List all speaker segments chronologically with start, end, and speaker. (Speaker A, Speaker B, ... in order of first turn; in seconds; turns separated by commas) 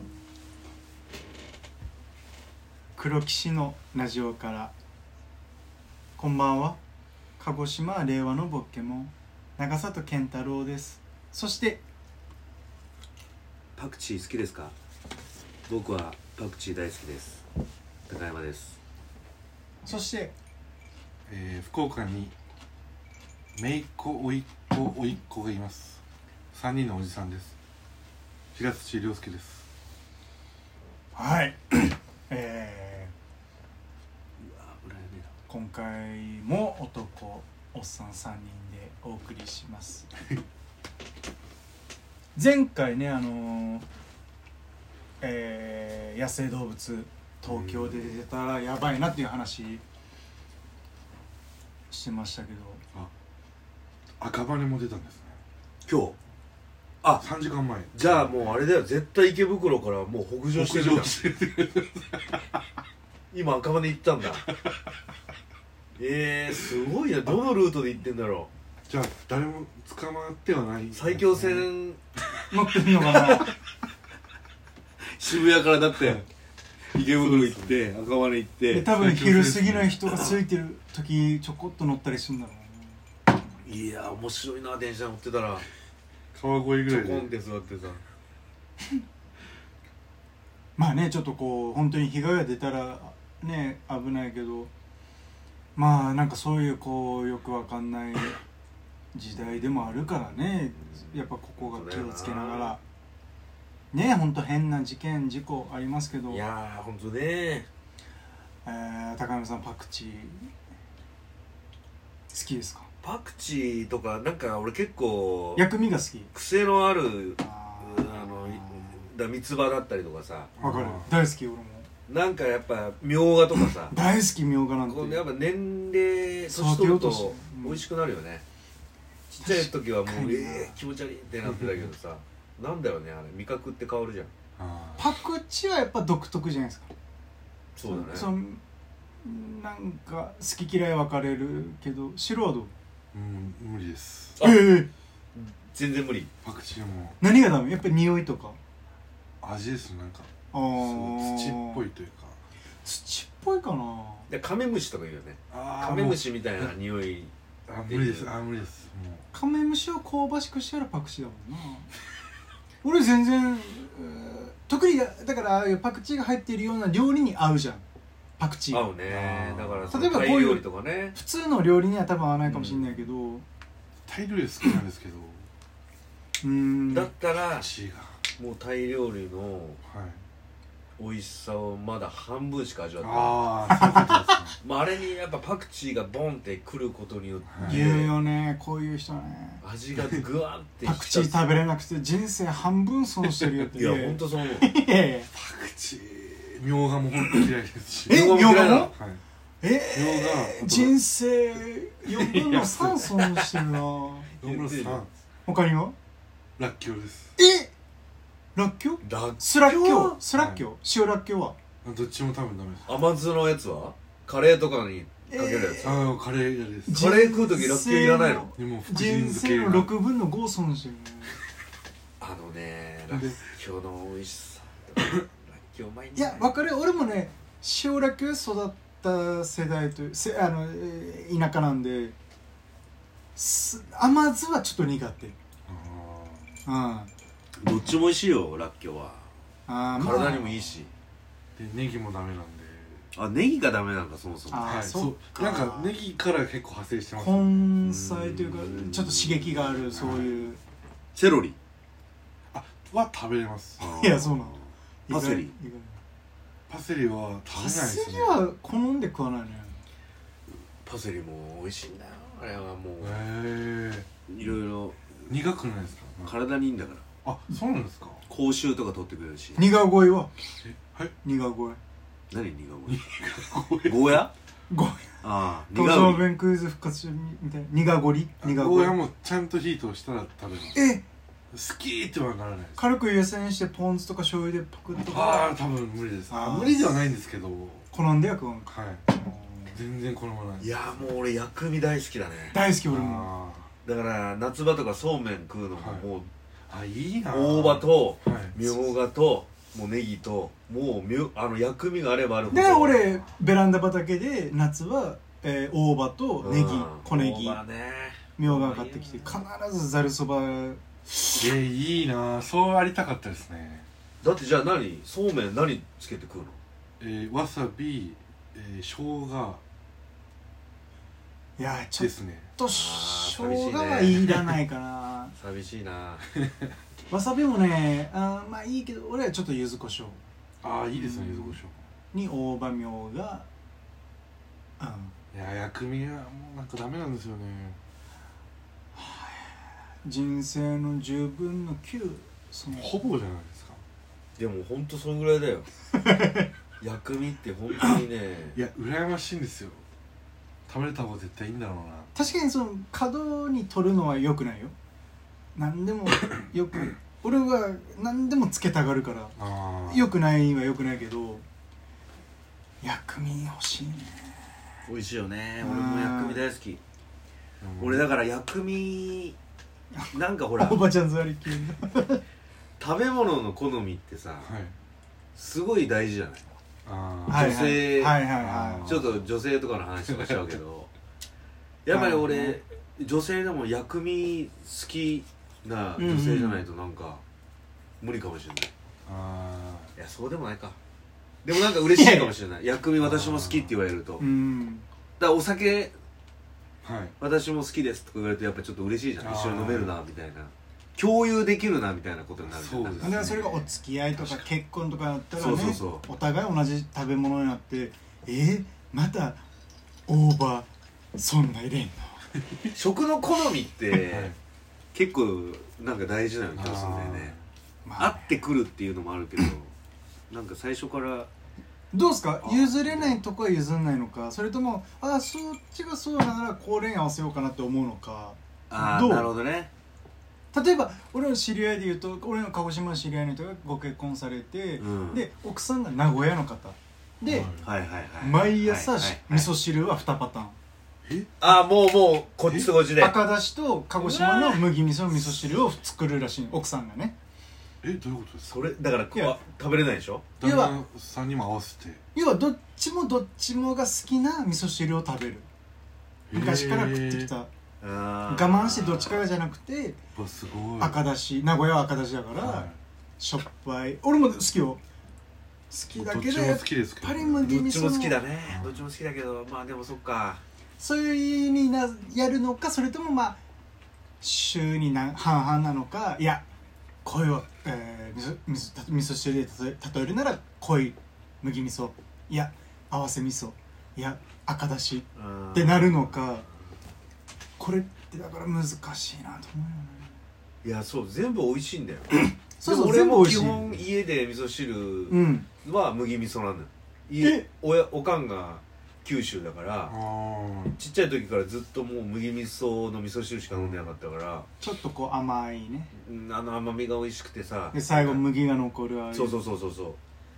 Speaker A: 3.0-4.7, Speaker A: 6.2-6.8, Speaker A: 7.4-11.8, Speaker B: 13.8-14.7, Speaker B: 15.7-17.4, Speaker B: 18.1-18.8, Speaker A: 19.8-20.3, Speaker C: 21.3-22.3, Speaker C: 23.6-27.5, Speaker C: 28.5-29.7, Speaker A: 31.1-33.1, Speaker B: 34.4-35.3, Speaker A: 35.5-40.1, Speaker A: 42.3-43.9, Speaker A: 45.2-49.8, Speaker C: 47.4-48.2, Speaker A: 51.9-52.8, Speaker C: 54.2-55.4, Speaker B: 55.9-56.1, Speaker C: 57.2-58.6, Speaker B: 57.9-61.2, Speaker C: 60.5-62.4, Speaker B: 63.3-64.5, Speaker B: 66.0-68.5, Speaker C: 68.9-71.7, Speaker B: 70.9-72.0, Speaker A: 72.5-73.5, Speaker B: 73.0-73.5, Speaker B: 75.2-76.2, Speaker C: 76.0-76.2, Speaker B: 76.9-78.9, Speaker C: 77.1-77.7, Speaker A: 78.7-83.0, Speaker C: 78.8-80.3, Speaker B: 80.1-80.4, Speaker B: 83.6-85.6, Speaker C: 86.3-87.3, Speaker B: 86.9-88.0, Speaker A: 90.8-94.7, Speaker A: 95.8-98.4, Speaker A: 99.1-102.8, Speaker B: 99.9-102.8, Speaker A: 103.9-106.4, Speaker B: 106.3-107.7, Speaker A: 108.6-110.5, Speaker A: 112.3-112.9, Speaker B: 113.0-115.7, Speaker A: 115.5-116.3, Speaker B: 116.3-120.5, Speaker A: 117.4-119.0, Speaker C: 120.6-121.2, Speaker A: 120.6-121.9, Speaker B: 122.1-124.0, Speaker A: 123.6-125.2, Speaker B: 124.8-128.4, Speaker A: 126.5-127.8, Speaker B: 129.3-134.3, Speaker A: 129.4-130.8, Speaker C: 131.4-131.9, Speaker C: 134.6-135.1, Speaker A: 135.0-136.9, Speaker B: 137.8-138.3, Speaker A: 137.8-138.6, Speaker A: 139.2-142.7, Speaker C: 143.1-144.3, Speaker B: 144.4-144.8, Speaker A: 144.4-144.9, Speaker B: 145.3-146.3, Speaker C: 146.4-147.2, Speaker A: 147.2-148.6, Speaker C: 149.4-152.4, Speaker A: 150.5-151.8, Speaker A: 152.8-154.3, Speaker B: 154.3-158.4, Speaker C: 155.5-156.7, Speaker C: 157.7-159.2, Speaker A: 159.3-161.9, Speaker A: 162.8-167.8, Speaker A: 168.4-168.9, Speaker B: 168.7-171.2, Speaker C: 169.1-170.2, Speaker A: 169.9-173.4, Speaker B: 172.4-173.1, Speaker C: 174.1-175.5, Speaker A: 176.4-177.1, Speaker B: 176.9-177.7, Speaker C: 177.5-178.2, Speaker B: 178.4-179.8, Speaker C: 179.8-180.2, Speaker B: 181.0-188.2, Speaker C: 183.0-184.6, Speaker A: 183.7-184.3, Speaker C: 187.5-187.8, Speaker A: 187.6-189.6, Speaker B: 189.6-191.5, Speaker A: 190.8-195.3, Speaker B: 193.7-194.7, Speaker C: 195.3-199.2, Speaker A: 198.1-198.9, Speaker B: 198.1-198.9, Speaker A: 199.6-204.3, Speaker C: 199.9-201.0, Speaker C: 202.1-203.7, Speaker B: 204.4-205.0, Speaker C: 204.4-205.1, Speaker A: 205.4-205.9, Speaker C: 206.6-207.3, Speaker A: 207.4-207.7, Speaker A: 208.5-211.6, Speaker B: 209.0-210.2, Speaker C: 210.3-210.6, Speaker C: 211.8-212.9, Speaker B: 212.8-216.0, Speaker A: 215.3-216.1, Speaker C: 215.8-217.0, Speaker A: 216.8-221.4, Speaker B: 216.9-218.5, Speaker C: 218.6-219.9, Speaker B: 222.2-226.6, Speaker C: 223.1-223.4, Speaker A: 226.1-232.1, Speaker A: 233.3-235.3, Speaker C: 235.7-236.6, Speaker A: 236.7-237.1, Speaker B: 237.6-239.2, Speaker A: 239.7-240.7, Speaker B: 239.9-240.9, Speaker C: 241.6-243.1, Speaker B: 243.1-244.8, Speaker A: 244.5-245.9, Speaker C: 244.6-247.7, Speaker A: 247.2-250.6, Speaker B: 247.8-249.8, Speaker C: 249.9-250.3, Speaker B: 251.1-251.6, Speaker C: 252.5-253.8, Speaker B: 253.8-255.5, Speaker A: 253.8-256.0, Speaker C: 256.7-258.4, Speaker A: 257.5-259.8, Speaker B: 260.8-263.2, Speaker C: 263.0-264.1, Speaker B: 264.3-265.0, Speaker C: 265.3-266.3, Speaker B: 266.2-267.0, Speaker C: 267.2-268.2, Speaker B: 268.3-269.7, Speaker A: 269.6-270.3, Speaker C: 270.6-271.1, Speaker A: 271.2-271.8, Speaker B: 272.3-273.2, Speaker C: 272.9-274.2, Speaker B: 273.8-274.3, Speaker A: 274.7-275.1, Speaker B: 275.2-276.3, Speaker A: 275.7-279.0, Speaker C: 278.4-280.8, Speaker A: 280.7-281.0, Speaker C: 281.5-282.8, Speaker A: 282.8-285.5, Speaker C: 285.1-287.9, Speaker A: 286.3-287.0, Speaker A: 287.9-289.8, Speaker C: 288.7-289.1, Speaker C: 289.7-291.1, Speaker B: 290.6-292.6, Speaker A: 292.5-293.3, Speaker C: 292.9-293.7, Speaker B: 293.8-296.3, Speaker C: 295.8-296.1, Speaker C: 296.7-298.6, Speaker B: 297.3-303.1, Speaker A: 302.5-307.6, Speaker B: 306.4-309.4, Speaker A: 308.4-311.5, Speaker C: 311.4-313.9, Speaker B: 314.2-316.6, Speaker C: 317.0-319.6, Speaker A: 321.6-325.3, Speaker C: 322.0-322.5, Speaker B: 322.7-324.4, Speaker B: 325.4-326.3, Speaker A: 327.1-330.2, Speaker C: 330.6-331.8, Speaker A: 330.9-331.6, Speaker A: 332.1-333.5, Speaker A: 334.8-335.1, Speaker C: 335.3-337.8, Speaker A: 338.9-343.1, Speaker C: 342.7-343.8, Speaker B: 344.4-345.7, Speaker A: 346.0-346.5, Speaker B: 346.8-348.6, Speaker C: 348.5-349.8, Speaker C: 350.7-352.2, Speaker A: 352.1-354.7, Speaker A: 355.5-361.4, Speaker C: 359.4-360.1, Speaker A: 362.8-364.5, Speaker B: 364.9-366.8, Speaker A: 365.6-366.4, Speaker C: 367.6-368.1, Speaker B: 367.8-369.4, Speaker A: 369.9-372.2, Speaker B: 370.1-370.8, Speaker B: 372.8-374.5, Speaker C: 374.4-374.7, Speaker B: 375.3-376.4, Speaker C: 376.9-377.6, Speaker A: 377.3-378.9, Speaker B: 377.3-378.3, Speaker C: 378.4-379.3, Speaker B: 378.8-380.9, Speaker C: 380.1-380.5, Speaker B: 381.8-387.2, Speaker A: 381.9-382.6, Speaker A: 386.0-386.6, Speaker B: 388.0-388.7, Speaker C: 389.1-389.9, Speaker B: 389.9-390.8, Speaker B: 391.4-394.2, Speaker A: 391.8-392.3, Speaker C: 393.0-393.8, Speaker A: 394.2-394.8, Speaker B: 395.2-395.9, Speaker C: 396.8-397.1, Speaker B: 397.2-403.4, Speaker C: 399.2-399.9, Speaker C: 402.4-404.4, Speaker A: 403.0-409.4, Speaker B: 405.3-406.1, Speaker A: 410.1-412.2, Speaker B: 412.7-414.3, Speaker C: 413.9-414.4, Speaker B: 414.9-417.3, Speaker C: 416.5-417.4, Speaker A: 417.8-418.4, Speaker B: 418.0-419.7, Speaker B: 420.3-421.3, Speaker A: 421.9-429.3, Speaker B: 422.4-423.2, Speaker B: 428.7-429.7, Speaker A: 430.5-437.5, Speaker B: 434.8-435.2, Speaker C: 437.2-437.6, Speaker B: 437.6-439.5, Speaker A: 438.2-440.6, Speaker C: 441.0-441.4, Speaker B: 441.4-443.2, Speaker A: 443.0-447.1, Speaker B: 444.0-444.7, Speaker C: 447.8-448.6, Speaker B: 448.4-450.3, Speaker C: 450.4-452.0, Speaker A: 450.4-450.7, Speaker A: 452.1-455.5, Speaker C: 456.3-457.3, Speaker A: 456.3-457.5, Speaker B: 457.8-459.2, Speaker A: 458.3-460.0, Speaker C: 460.1-461.0, Speaker A: 460.8-464.8, Speaker C: 462.4-462.8, Speaker A: 465.7-468.3, Speaker C: 465.9-467.6, Speaker B: 467.4-470.4, Speaker C: 468.4-468.8, Speaker A: 470.8-473.4, Speaker A: 474.2-476.4, Speaker A: 477.0-486.4, Speaker B: 485.1-486.4, Speaker A: 487.6-490.1, Speaker B: 490.6-499.9, Speaker A: 492.1-493.7, Speaker A: 495.1-495.5, Speaker A: 497.2-497.4, Speaker C: 499.9-500.8, Speaker B: 500.7-504.5, Speaker C: 503.5-503.8, Speaker A: 504.6-505.9, Speaker B: 505.9-508.2, Speaker A: 507.7-509.4, Speaker B: 509.1-510.0